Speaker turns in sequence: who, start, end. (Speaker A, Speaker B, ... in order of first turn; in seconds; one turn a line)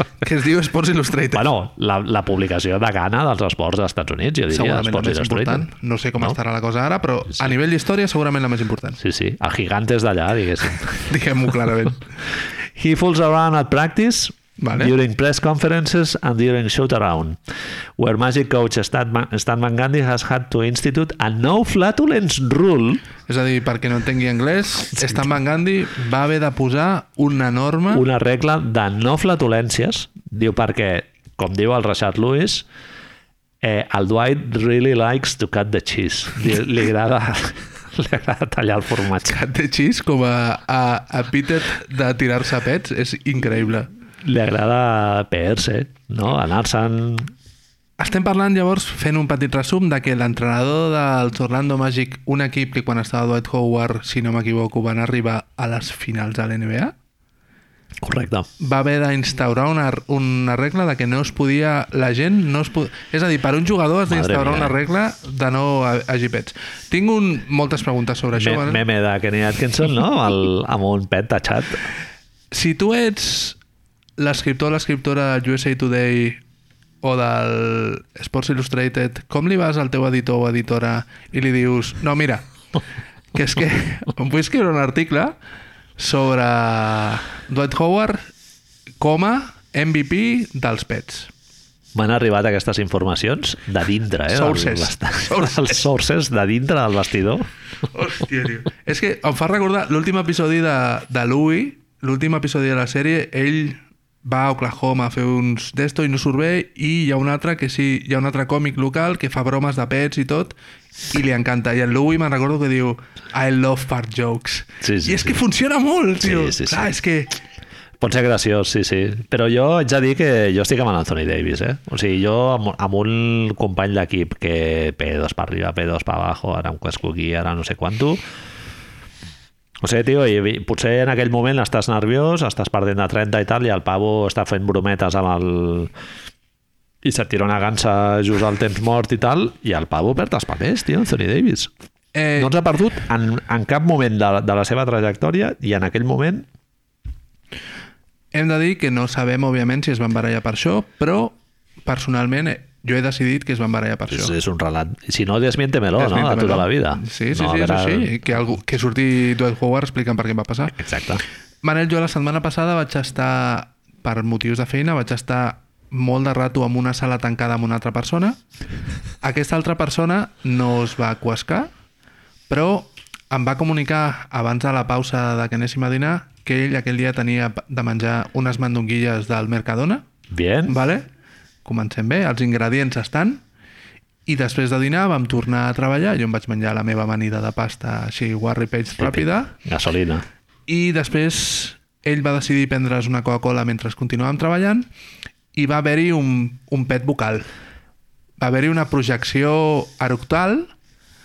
Speaker A: 0.2-1.5
Speaker B: 1.3-5.7
Speaker A: 4.5-9.0
Speaker B: 9.0-11.1
Speaker A: 11.0-12.0
Speaker B: 12.8-17.4
Speaker A: 14.6-14.9
Speaker B: 18.0-23.0
Speaker A: 23.3-28.1
Speaker B: 27.9-32.6
Speaker B: 33.6-39.4
Speaker A: 39.2-43.9
Speaker B: 44.2-47.3
Speaker A: 48.0-56.9
Speaker B: 58.0-58.5
Speaker A: 58.6-68.8
Speaker B: 64.1-64.7
Speaker B: 68.4-71.8
Speaker A: 72.5-73.6
Speaker A: 74.2-76.4
Speaker A: 77.0-82.5
Speaker A: 83.3-85.4
Speaker A: 86.0-88.2
Speaker A: 89.0-91.3
Speaker B: 92.0-97.5
Speaker A: 94.3-95.8
Speaker A: 97.9-110.5
Speaker A: 111.1-117.3
Speaker B: 114.8-115.4
Speaker B: 116.2-116.9
Speaker B: 118.0-128.2
Speaker B: 129.8-135.9
Speaker B: 137.0-141.7
Speaker A: 142.1-142.5
Speaker B: 142.4-146.5
Speaker A: 148.3-154.3
Speaker B: 154.1-158.1
Speaker A: 156.0-160.8
Speaker B: 160.8-161.2
Speaker A: 161.6-168.4
Speaker A: 169.2-171.7
Speaker A: 172.5-180.1
Speaker B: 180.3-180.8
Speaker A: 180.7-181.1
Speaker A: 181.6-183.4
Speaker A: 184.3-189.6
Speaker B: 189.0-190.2
Speaker A: 190.7-194.9
Speaker A: 195.5-197.5
Speaker A: 198.4-200.7